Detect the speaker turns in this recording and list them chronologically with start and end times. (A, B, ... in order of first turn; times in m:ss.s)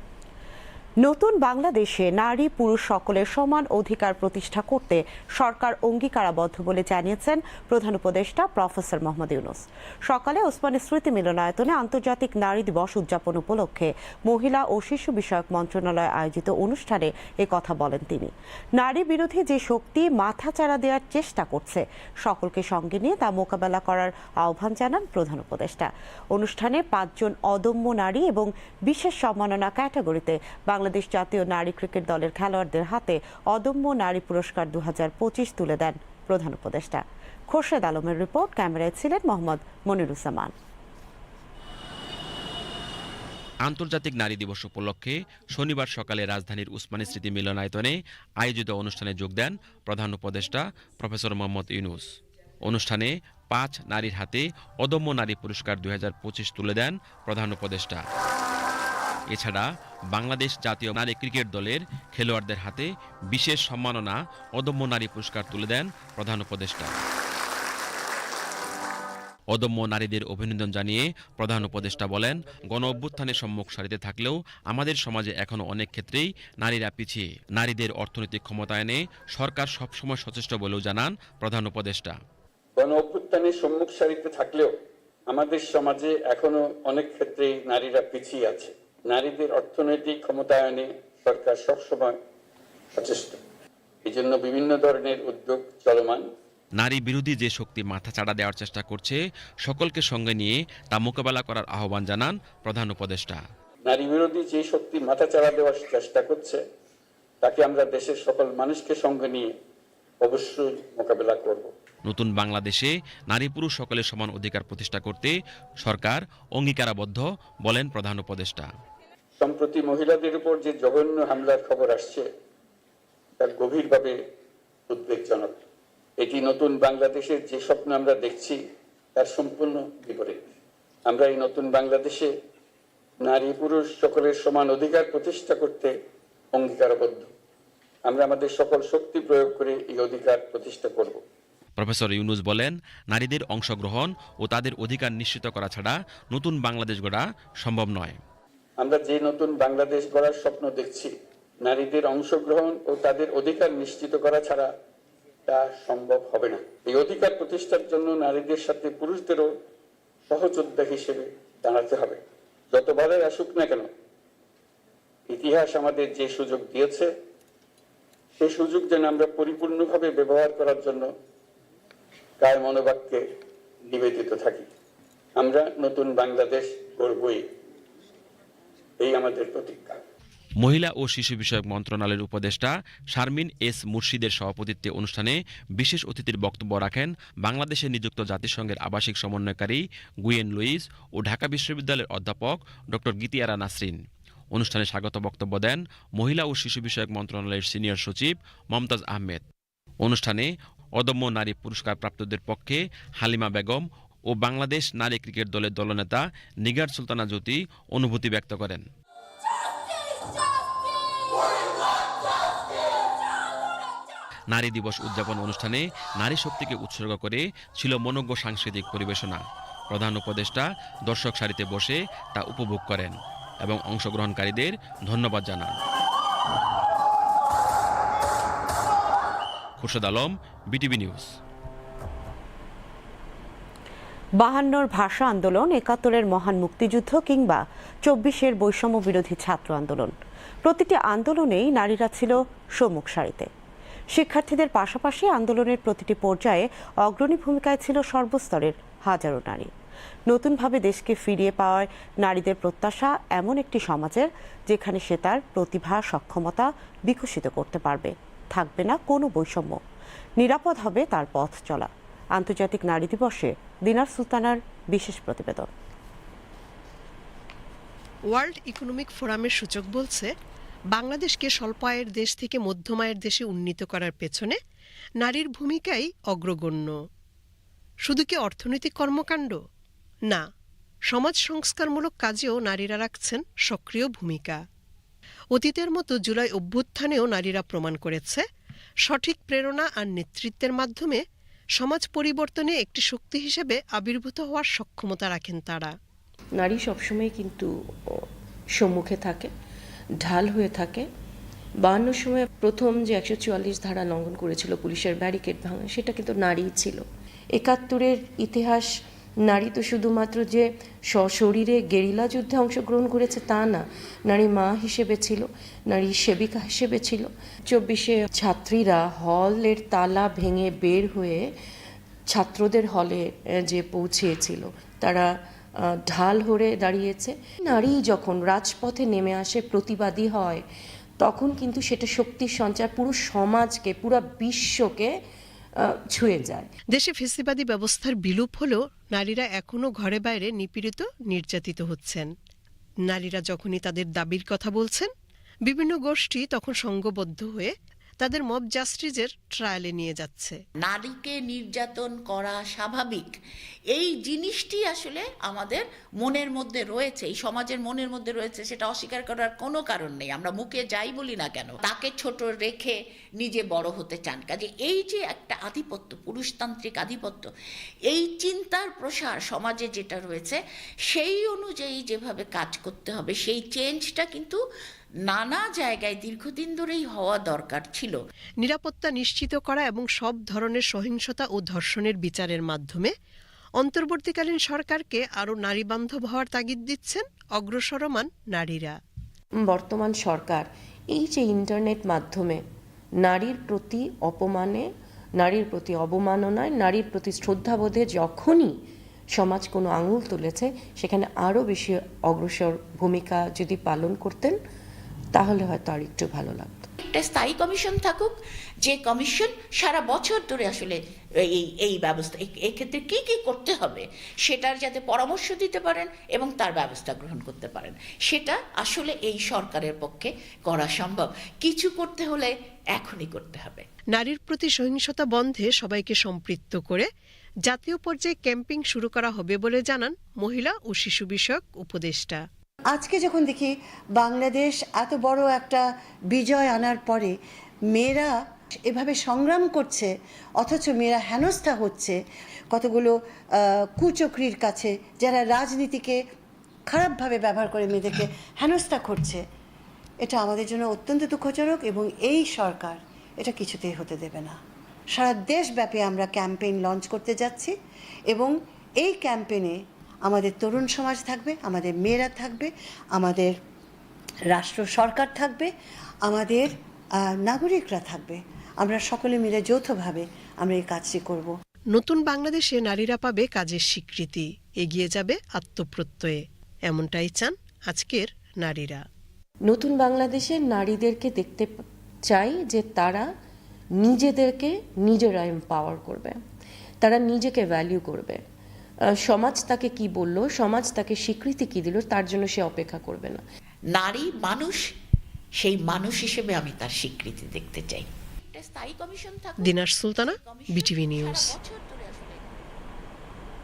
0:01.0-0:40.5 A
0:43.7-0:52.1 B
0:52.7-0:58.0 B
0:59.3-1:07.0 B
1:09.5-1:22.2 B
1:23.0-1:24.6 C
1:25.4-1:32.1 C
1:33.0-1:33.4 C
1:34.2-1:36.2 C
1:36.8-1:43.4 B
1:43.9-1:46.6 C
1:47.5-1:49.4 C
1:50.3-1:51.7 C
1:52.1-1:55.3 B
1:55.8-1:58.7 B
1:59.5-2:02.2 C
2:03.4-2:04.1 C
2:05.0-2:05.5 C
2:06.2-2:08.5 C
2:09.2-2:10.4 C
2:11.1-2:12.3 C
2:13.3-2:15.9 C
2:16.6-2:17.2 C
2:18.1-2:21.2 C
2:21.8-2:28.2 B
2:28.8-2:31.1 C
2:31.7-2:34.6 C
2:35.5-2:39.4 C
2:40.3-2:42.2 C
2:42.8-2:43.8 C
2:45.3-2:47.1 C
2:48.4-2:51.0 C
2:52.4-2:53.2 C
2:53.9-2:54.6 C
2:55.4-2:57.4 C
2:59.1-3:00.0 C
3:00.6-3:14.0 B
3:14.5-3:19.4 B
3:20.0-3:28.8 B
3:34.5-3:45.8 B
3:49.8-3:51.3 B
3:54.4-4:03.5 A
4:04.1-4:09.7 A
4:10.3-4:19.8 A
4:20.4-4:25.7 A
4:28.3-4:30.3 D
4:30.9-4:34.6 D
4:35.2-4:37.0 D
4:38.0-4:39.6 D
4:41.1-4:44.6 D
4:45.5-4:48.4 D
4:49.0-4:51.2 D
4:51.8-4:56.0 D
4:56.6-4:59.5 E
5:00.2-5:01.1 E
5:01.8-5:08.9 E
5:09.4-5:21.5 E
5:22.3-5:25.3 E
5:25.9-5:30.6 E
5:31.2-5:35.2 E
5:35.8-5:36.7 E
5:36.9-5:42.3 D
5:43.1-5:45.1 D
5:45.6-5:50.6 D
5:50.8-5:53.3 F
5:53.9-6:07.5 F
6:08.1-6:14.6 F
6:15.3-6:18.2 F
6:18.6-6:23.1 D
6:23.8-6:29.0 D
6:29.6-6:32.6 E
6:33.2-6:38.8 E
6:39.3-6:44.6 E
6:45.3-6:46.9 E
6:47.0-7:03.8 F
7:04.1-7:07.1 D
7:07.6-7:12.4 D
7:12.9-7:17.4 G
7:17.9-7:22.2 G
7:22.7-7:23.2 G
7:24.0-7:26.2 G
7:26.9-7:29.4 G
7:30.2-7:34.6 G
7:35.1-7:37.7 G
7:38.3-7:43.6 G
7:44.5-7:45.7 G
7:46.2-7:51.6 G
7:51.9-7:59.0 D
7:59.6-8:03.3 E
8:04.0-8:06.4 E
8:07.0-8:08.4 E
8:09.2-8:13.4 E
8:13.9-8:14.8 F
8:15.6-8:22.6 F
8:19.6-8:21.5 D